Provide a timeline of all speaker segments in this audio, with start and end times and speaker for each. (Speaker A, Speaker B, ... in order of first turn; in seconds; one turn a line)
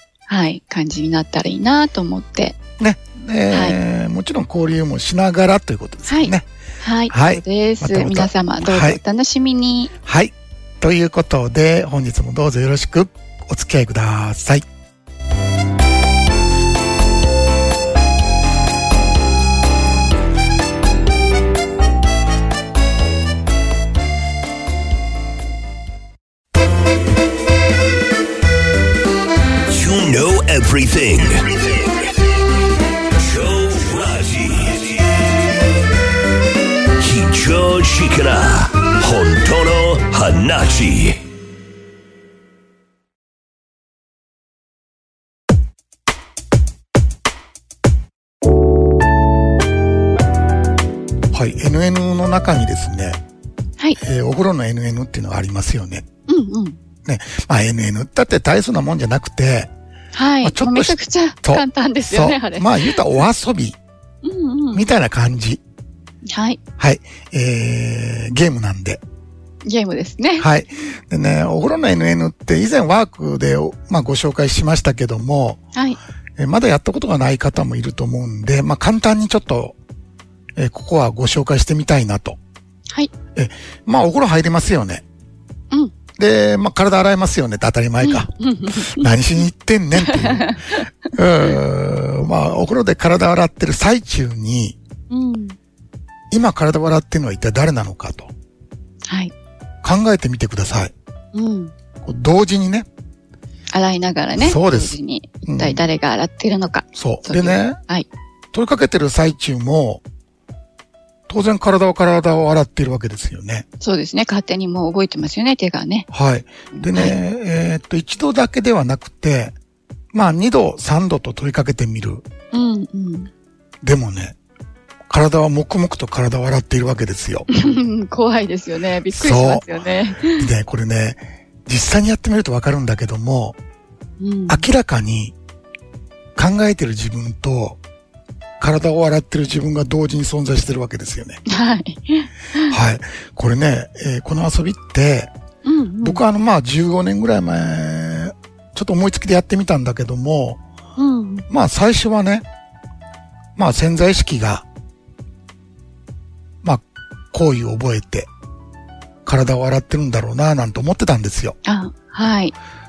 Speaker A: 0.3-2.6
Speaker B: 2.8-6.5
Speaker A: 3.5-3.8
Speaker A: 6.1-9.9
Speaker B: 7.1-9.0
Speaker B: 10.0-14.7
Speaker C: 29.7-31.9
Speaker C: 33.1-35.3
Speaker C: 37.0-41.2
Speaker B: 51.3-53.2
Speaker B: 54.0-56.0
Speaker A: 56.3-56.8
Speaker B: 57.0-59.7
Speaker A: 60.1-63.0
Speaker B: 60.4-63.8
Speaker A: 64.2-64.9
Speaker B: 64.7-65.6
Speaker A: 66.3-66.6
Speaker B: 66.8-69.0
Speaker A: 69.7-70.5
Speaker B: 70.4-75.6
Speaker B: 76.4-79.8
Speaker B: 80.6-82.4
Speaker B: 83.3-85.0
Speaker B: 86.2-90.6
Speaker A: 88.0-89.1
Speaker A: 90.0-90.9
Speaker B: 91.1-94.8
Speaker A: 95.1-95.6
Speaker B: 96.3-98.3
Speaker A: 99.1-99.3
Speaker B: 99.8-100.9
Speaker A: 101.3-101.7
Speaker B: 102.0-102.9
Speaker A: 103.7-108.1
Speaker B: 104.4-105.0
Speaker B: 105.5-105.8
Speaker B: 107.0-107.8
Speaker B: 108.5-110.0
Speaker B: 111.3-113.7
Speaker A: 113.8-116.1
Speaker B: 116.1-119.5
Speaker A: 116.7-117.2
Speaker B: 120.1-122.3
Speaker A: 122.5-123.3
Speaker B: 123.8-124.4
Speaker B: 125.1-127.5
Speaker A: 127.5-130.5
Speaker B: 129.1-129.7
Speaker B: 130.2-133.6
Speaker A: 134.2-134.7
Speaker B: 134.5-135.4
Speaker B: 136.4-137.8
Speaker B: 138.6-141.4
Speaker A: 141.5-142.8
Speaker B: 142.7-145.3
Speaker A: 145.7-146.2
Speaker B: 146.0-150.6
Speaker A: 151.0-151.5
Speaker B: 151.5-152.5
Speaker B: 153.6-154.7
Speaker B: 156.6-158.3
Speaker B: 159.3-161.6
Speaker A: 161.7-162.6